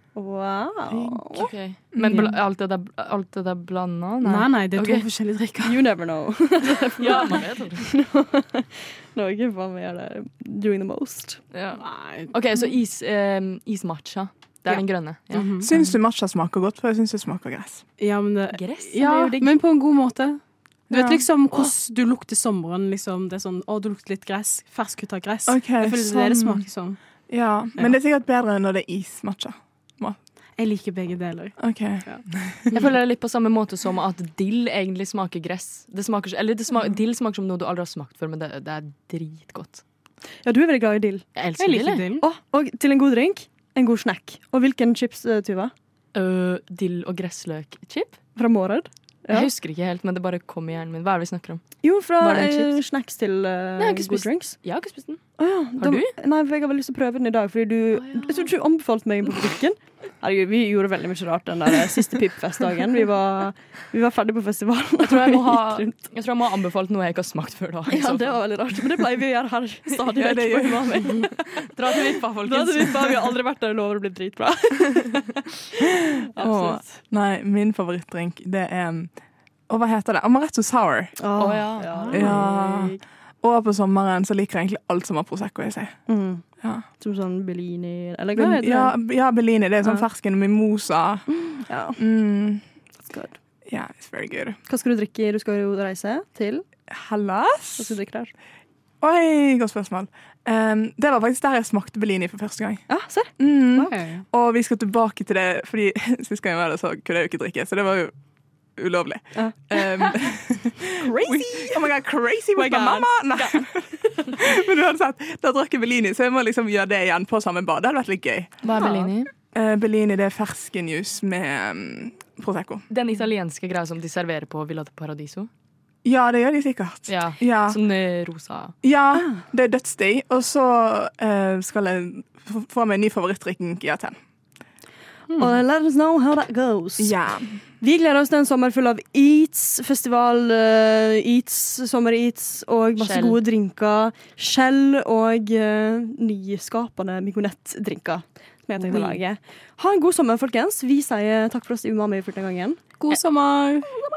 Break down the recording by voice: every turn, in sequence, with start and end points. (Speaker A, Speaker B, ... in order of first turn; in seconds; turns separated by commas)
Speaker A: 0.1-1.5, Speaker B: 0.9-1.2, Speaker C: 1.3-5.1, Speaker B: 1.9-2.3, Speaker D: 4.2-5.8, Speaker A: 5.6-11.4, Speaker C: 7.0-7.8, Speaker C: 11.5-15.7, Speaker D: 11.8-12.3, Speaker D: 15.3-15.7, Speaker B: 15.6-17.8, Speaker D: 18.0-27.0, Speaker C: 18.5-19.6, Speaker B: 20.9-21.3, Speaker B: 25.5-26.6, Speaker B: 27.3-30.2, Speaker D: 30.6-32.8, Speaker B: 31.6-32.7, Speaker C: 32.7-39.8, Speaker A: 40.4-41.2, Speaker C: 41.4-42.1, Speaker D: 41.6-42.2, Speaker A: 42.2-45.7, Speaker C: 46.1-48.2, Speaker A: 48.4-49.5, Speaker C: 49.3-52.8, Speaker A: 51.8-54.5, Speaker C: 53.8-55.2, Speaker A: 55.4-66.0, Speaker C: 55.8-56.1, Speaker C: 58.0-58.5, Speaker C: 65.0-68.4, Speaker A: 67.9-71.4, Speaker B: 70.2-71.0, Speaker C: 71.3-73.3, Speaker A: 72.4-75.3, Speaker A: 76.3-76.9, Speaker B: 76.4-79.1, Speaker B: 79.7-81.2, Speaker A: 81.2-83.0, Speaker C: 81.4-82.5, Speaker B: 82.1-86.0, Speaker A: 86.1-89.0, Speaker B: 88.4-92.6, Speaker A: 91.5-92.0, Speaker A: 93.1-93.3, Speaker B: 93.7-94.6, Speaker A: 94.7-96.6, Speaker B: 96.9-98.0, Speaker A: 97.8-98.3, Speaker B: 99.0-102.8, Speaker A: 102.9-103.9, Speaker B: 103.4-108.1, Speaker D: 103.9-104.2, Speaker B: 108.8-118.6, Speaker A: 109.3-110.1, Speaker A: 111.0-111.8, Speaker A: 112.5-113.6, Speaker C: 118.6-119.3, Speaker A: 118.8-119.1, Speaker B: 119.5-122.8, Speaker C: 122.9-125.5, Speaker B: 126.0-127.8, Speaker C: 127.1-128.7, Speaker B: 128.8-134.2, Speaker A: 129.1-129.4, Speaker A: 135.4-137.1, Speaker B: 137.0-137.6, Speaker A: 137.8-152.8, Speaker C: 143.0-143.4, Speaker C: 148.8-149.2, Speaker D: 153.0-153.9